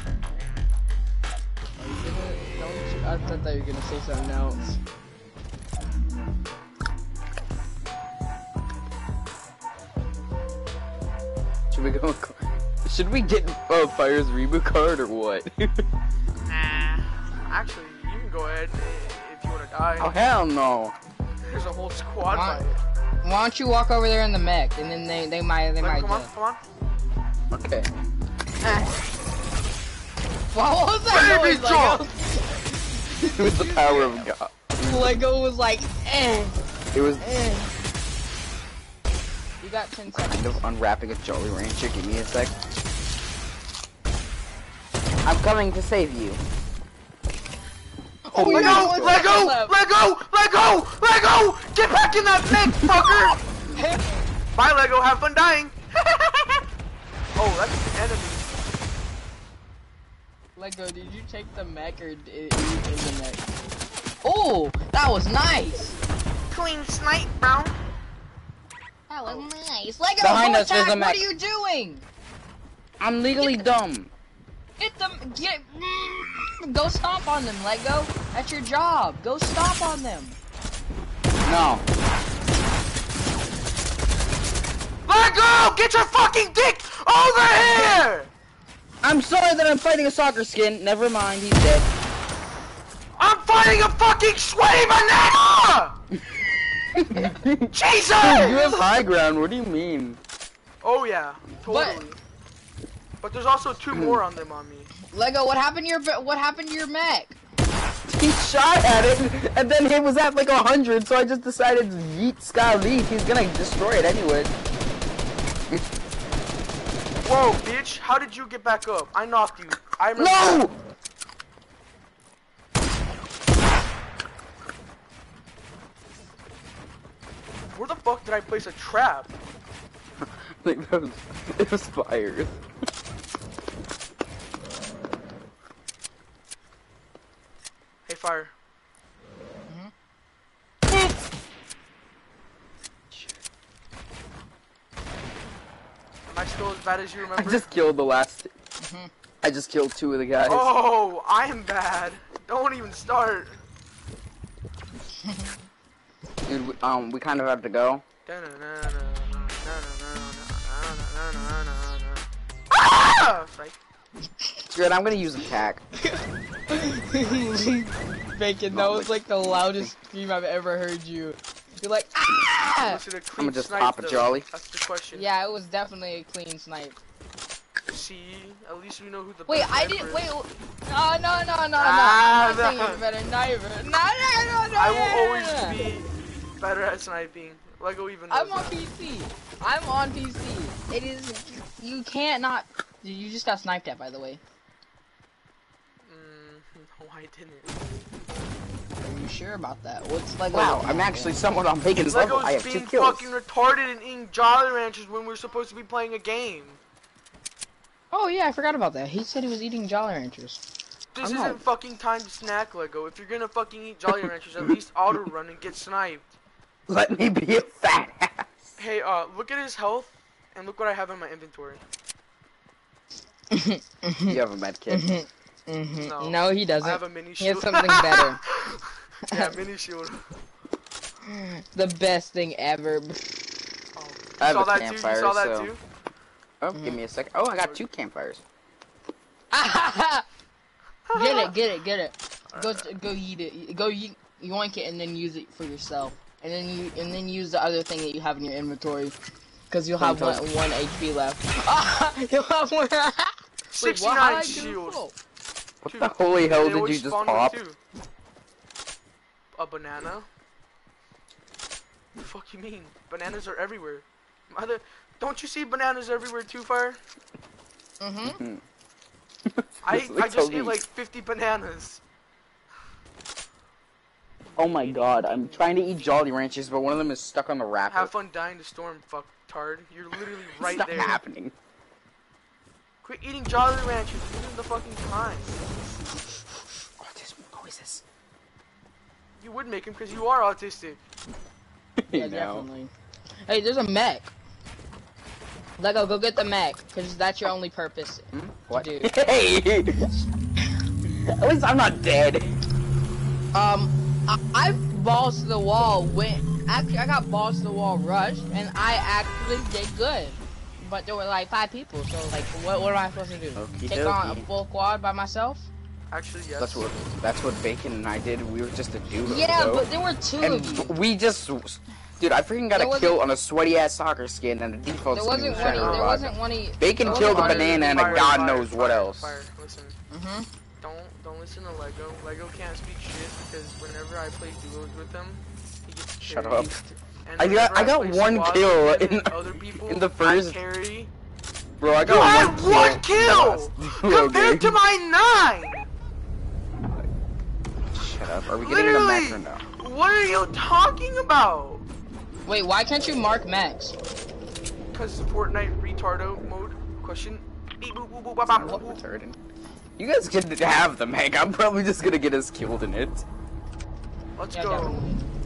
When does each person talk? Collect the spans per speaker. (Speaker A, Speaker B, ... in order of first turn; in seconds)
Speaker A: 1.8-4.8, 22.3-22.6, 23.2-26.3, 30.5-36.6, 37.2-37.7, 39.6-40.6, 48.2-49.8, 53.7-54.1, 60.6-63.5, 64.2-66.0, 69.1-72.1, 73.4-73.7, 74.8-80.4, 98.5-98.8, 101.7-102.0, 105.1-107.4, 148.8-149.1, 166.0-173.0, 175.1-177.0, 179.5-185.9, 188.3-194.4, 199.0-201.4, 208.1-210.6, 223.5-224.4, 224.9-228.4, 229.3-229.6, 231.2-233.5, 239.5-240.2, 241.1-249.2, 249.7-255.2, 268.0-268.4, 292.1-292.9, 293.5-294.3, 295.8-299.1, 303.5-315.7, 319.2-320.9, 322.7-323.2, 325.1-328.3, 330.1-330.5, 352.5-353.9, 364.5-365.2
Speaker B: 11.7-15.8, 20.0-20.9, 27.5-27.9, 33.3-35.2, 36.9-37.3, 40.1-42.6, 45.2-46.4, 48.3-49.3, 70.2-71.2, 73.0-74.1, 81.4-81.8, 89.0-91.9, 97.0-100.2, 103.9-104.2, 108.1-114.5, 120.2-120.7, 130.2-132.6, 147.3-148.5, 149.4-150.7, 156.5-158.0, 164.7-165.8, 168.7-169.9, 173.4-174.5, 200.5-203.3, 211.2-211.6, 216.9-218.7, 224.3-225.1, 234.4-235.7, 236.6-238.4, 250.0-250.5, 255.8-257.6, 268.2-268.6, 269.5-270.8, 274.6-278.1, 280.6-281.5, 287.0-288.0, 292.0-292.7, 298.3-300.1, 301.3-302.6, 313.6-314.5, 316.6-319.9, 320.4-329.4, 336.2-336.8, 337.4-340.6, 341.8-344.8, 347.9-349.6, 358.5-359.4, 360.0-363.2
Speaker C: 16.4-20.2, 21.4-22.8, 25.8-26.6, 31.1-32.0, 48.5-53.4, 54.5-56.6, 57.4-58.5, 66.5-67.8, 85.1-88.3, 93.2-96.0, 97.8-98.7, 100.8-102.2, 103.2-104.9, 117.2-120.6, 127.7-129.3, 138.1-138.5, 146.3-147.7, 150.4-153.6, 158.3-163.8, 172.8-175.3, 177.9-180.3, 181.8-183.0, 184.8-186.1, 186.6-188.8, 196.1-197.7, 202.0-206.8, 211.2-216.3, 218.8-221.8, 225.9-230.2, 234.0-235.8, 237.6-237.8, 241.1-241.5, 242.5-242.9, 253.8-255.0, 255.9-257.8, 259.6-260.3, 262.2-267.0, 269.8-272.0, 274.6-276.1, 277.9-281.2, 283.0-285.6, 289.4-291.0, 316.1-316.9, 325.5-326.3, 327.0-330.0, 330.8-341.1, 342.0-345.9, 348.6-351.9, 354.9-359.0, 364.4-365.0